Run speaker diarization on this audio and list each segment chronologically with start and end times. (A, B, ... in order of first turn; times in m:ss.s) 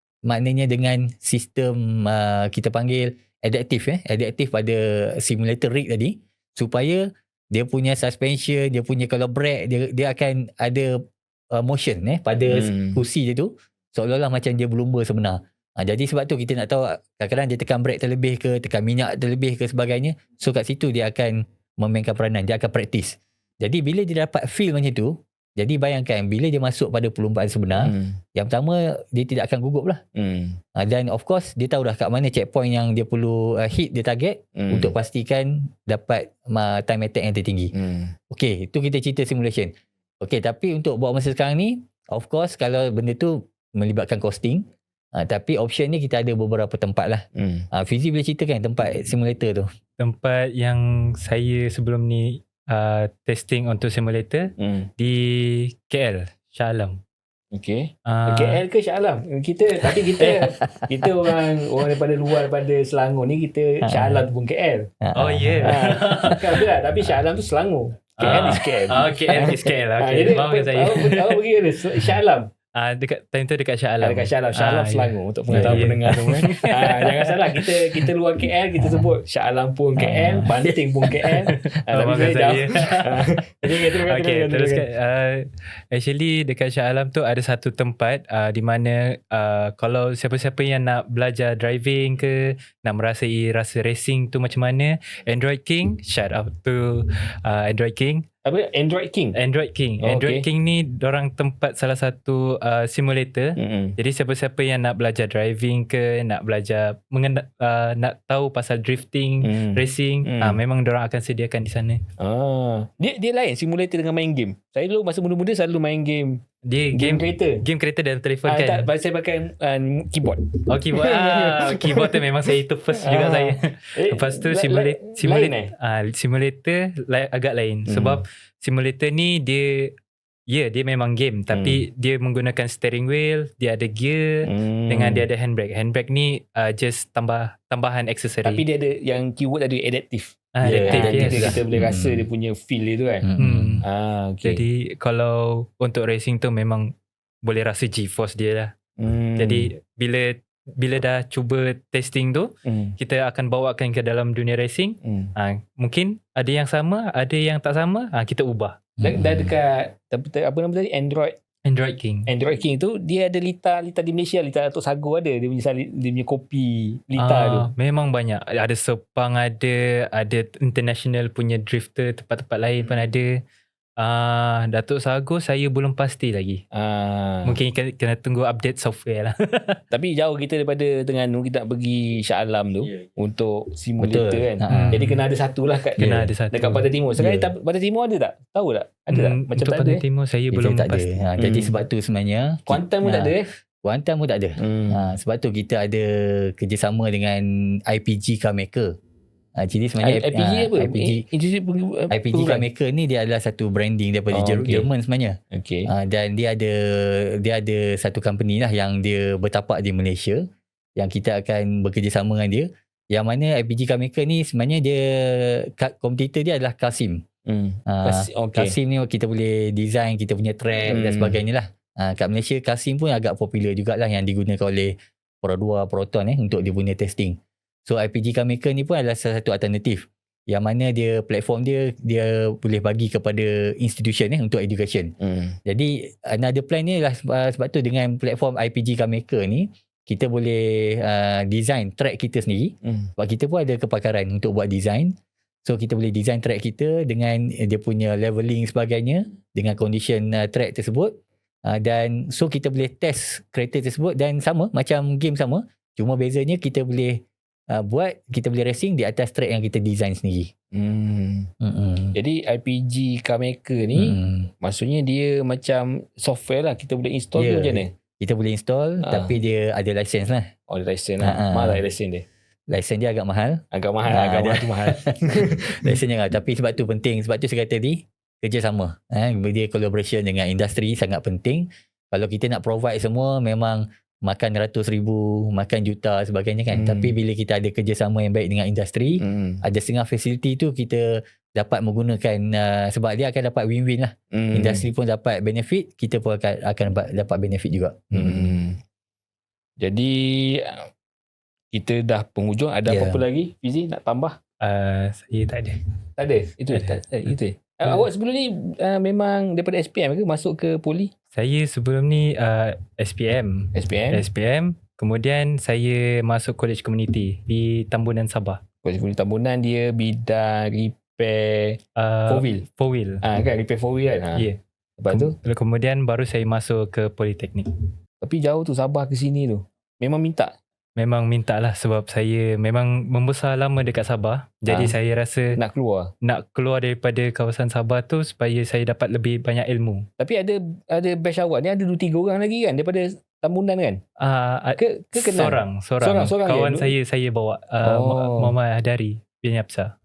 0:00.2-0:10.9 A
0:11.5-0:30.0 A
0:12.5-0:13.0 B
0:27.8-0:28.2 B
0:30.2-0:30.6 B
0:30.8-0:37.7 A
0:34.6-0:34.9 B
0:37.7-0:38.1 B
0:38.3-0:49.7 A
0:47.4-0:47.7 B
0:50.0-0:57.0 C
0:54.6-0:54.9 B
0:57.5-1:04.9 B
0:58.1-0:58.6 C
1:00.2-1:01.3 A
1:03.9-1:04.2 A
1:05.0-1:05.8 A
1:05.1-1:06.6 C
1:05.6-1:12.5 B
1:08.2-1:11.4 C
1:08.3-1:08.6 A
1:12.8-1:18.0 C
1:14.0-1:24.8 B
1:15.5-1:16.5 A
1:20.0-1:20.5 A
1:20.1-1:20.5 C
1:21.5-1:38.2 C
1:38.4-1:39.4 B
1:39.4-1:52.0 C
1:40.0-1:40.4 B
1:43.6-1:44.0 B
1:49.4-1:50.6 B
1:52.2-1:56.4 B
1:56.7-1:58.9 C
1:56.9-1:57.6 B
1:58.5-2:02.2 B
2:00.7-2:09.9 C
2:03.0-2:05.7 B
2:07.9-2:08.2 B
2:10.5-2:18.6 C
2:11.5-2:11.8 B
2:14.4-2:15.2 B
2:18.4-2:23.2 B
2:20.5-2:21.6 C
2:20.6-2:22.2 A
2:23.2-2:23.8 A
2:23.4-2:23.8 C
2:23.8-2:24.6 B
2:24.4-2:28.7 C
2:29.0-2:29.7 B
2:29.4-2:38.9 C
2:32.6-2:33.0 B
2:35.0-2:35.3 B
2:39.0-2:39.5 A
2:39.0-2:41.4 B
2:41.6-2:42.3 C
2:42.3-2:47.7 B
2:47.2-2:53.3 C
2:54.0-2:56.6 C
2:56.7-2:57.6 B
2:57.4-2:59.8 C
2:59.9-3:10.0 B
3:04.0-3:05.0 A
3:04.7-3:05.2 C
3:06.0-3:06.9 C
3:06.0-3:06.3 A
3:07.2-3:07.5 A
3:09.1-3:11.2 C
3:10.5-3:18.9 A
3:11.4-3:11.8 B
3:12.7-3:13.5 B
3:14.6-3:15.0 B
3:19.6-3:21.2 A
3:20.0-3:22.6 B
3:22.1-3:25.4 A
3:24.3-3:24.9 B
3:25.5-3:25.9 B
3:25.9-3:30.4 A
3:31.0-3:37.2 A
3:37.5-3:38.8 B
3:37.9-3:55.1 A
3:40.9-3:41.4 B
3:55.2-3:55.6 B
3:55.6-4:20.5 A
4:02.8-4:03.1 B
4:20.7-4:21.5 B
4:21.6-4:22.1 A
4:22.1-4:27.9 B
4:24.0-4:24.5 A
4:27.4-4:30.5 A
4:29.0-4:29.3 B
4:30.7-4:32.2 B
4:31.2-4:31.8 A
4:32.7-4:58.6 A
4:33.7-4:35.9 B
4:46.7-4:47.1 B
4:49.2-4:49.6 B
4:54.3-4:54.9 B
4:58.1-4:58.8 B
4:59.8-5:00.9 B
5:01.7-5:04.4 B
5:02.8-5:03.2 A
5:04.6-5:05.8 C
5:06.2-5:11.1 B
5:06.7-5:07.1 C
5:11.3-5:18.6 C
5:13.7-5:14.2 B
5:18.8-5:22.6 B
5:22.0-5:23.2 C
5:23.2-5:25.3 B
5:25.1-5:27.7 C
5:28.2-5:30.5 B
5:31.0-5:35.6 C
5:34.7-5:35.0 B
5:35.5-5:36.1 B
5:36.2-5:40.0 C
5:40.2-5:44.0 B
5:44.2-5:49.9 C
5:44.8-5:46.9 B
5:47.8-5:48.5 B